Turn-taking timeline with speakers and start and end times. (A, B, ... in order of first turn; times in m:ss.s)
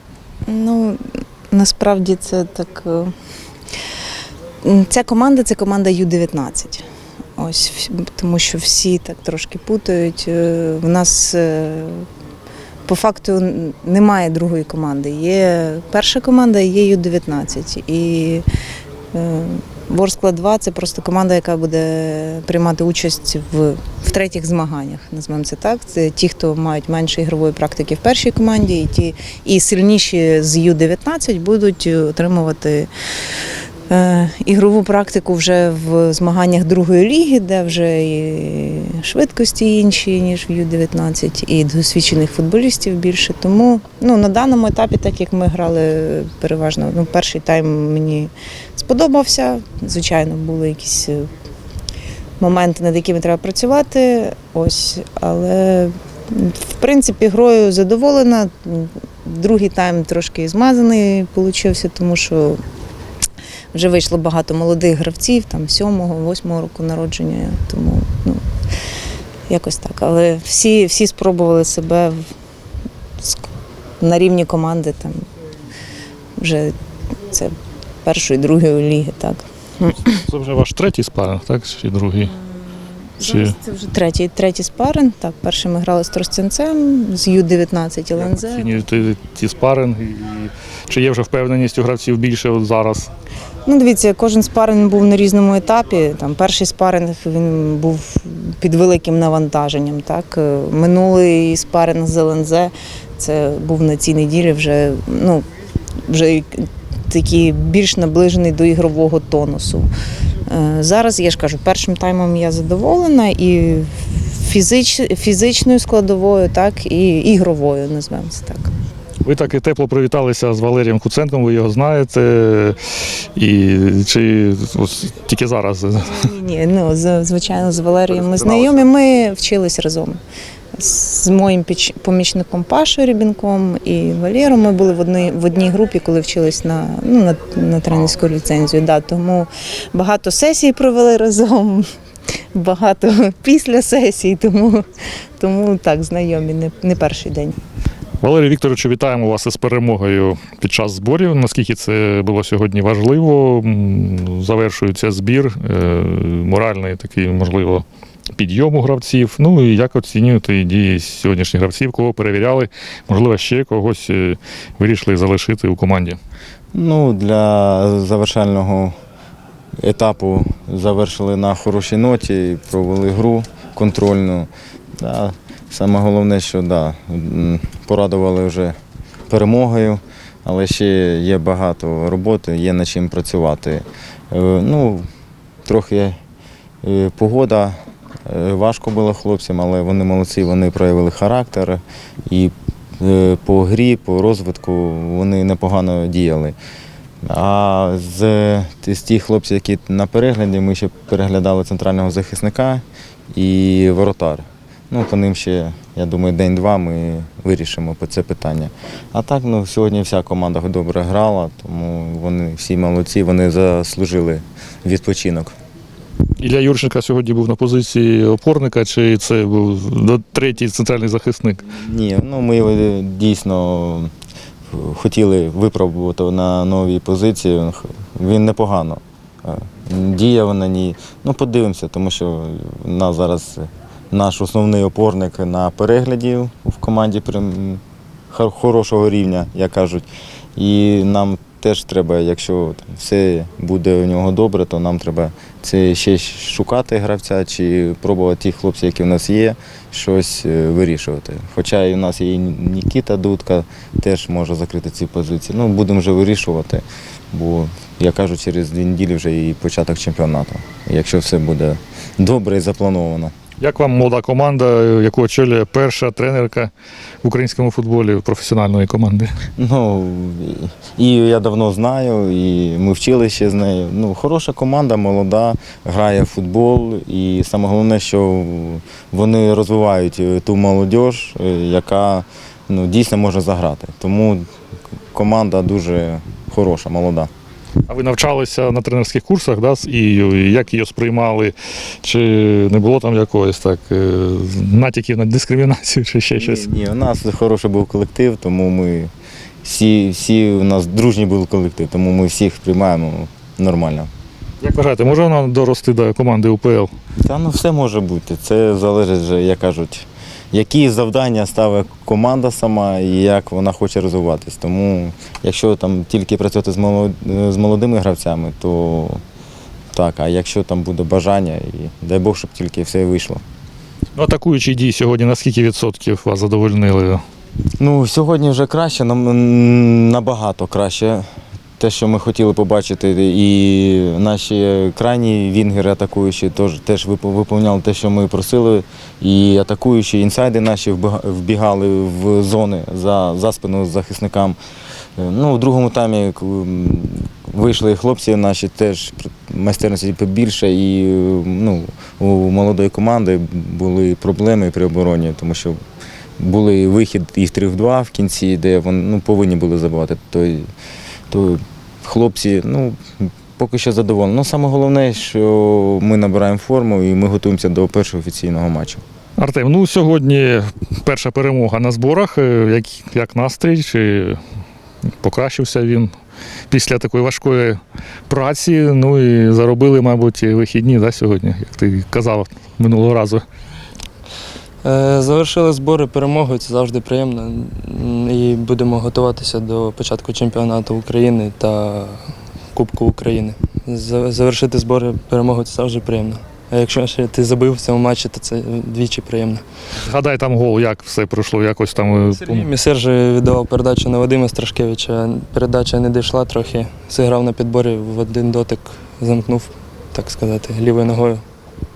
0:00.5-0:01.0 A
0:01.5-0:03.1 A
0:04.6-0:06.8 A
0:07.4-0:12.1 A
0:12.9-0:18.4 A
0:19.1-0:32.9 A
0:33.9-0:51.3 A
0:52.4-1:02.6 A
1:03.7-1:08.4 A
1:09.5-1:12.2 A
1:14.0-1:15.2 A
1:16.4-1:16.7 A
1:18.0-1:20.2 A
1:20.2-1:22.4 B
1:23.2-1:28.8 A
1:23.2-1:23.6 B
1:28.2-1:33.1 B
1:33.7-1:45.4 A
1:46.1-1:49.9 A
1:50.5-1:58.7 A
1:59.2-2:02.8 B
2:03.4-2:06.2 B
2:06.1-2:10.2 A
2:08.1-2:08.8 B
2:10.8-2:21.9 A
2:22.5-2:24.9 A
2:25.4-2:27.6 A
2:28.2-2:46.2 B
2:46.7-2:49.0 C
2:49.8-2:58.8 C
2:59.3-3:05.1 C
3:05.7-3:06.2 C
3:06.8-3:16.6 C
3:17.2-3:35.6 C
3:36.4-3:41.6 B
3:41.7-3:44.1 C
3:44.7-4:23.3 C
4:23.6-4:26.7 B
4:27.2-4:29.3 B
4:29.6-4:44.5 C
4:45.1-4:47.3 C
4:47.9-4:56.7 B
4:56.4-4:59.1 C
4:59.6-5:04.1 C
5:04.6-5:06.9 B
5:07.2-5:19.2 C
5:19.9-5:23.4 C
5:24.2-5:27.2 B
5:27.8-5:31.3 C
5:31.8-5:44.6 C
5:45.2-5:55.8 C
5:56.4-6:00.7 C
6:01.3-6:09.0 C
6:09.4-6:14.4 B
6:15.2-6:16.1 B
6:16.7-6:23.4 B
6:24.8-6:39.6 D
6:40.0-6:42.7 B
6:42.2-6:51.4 D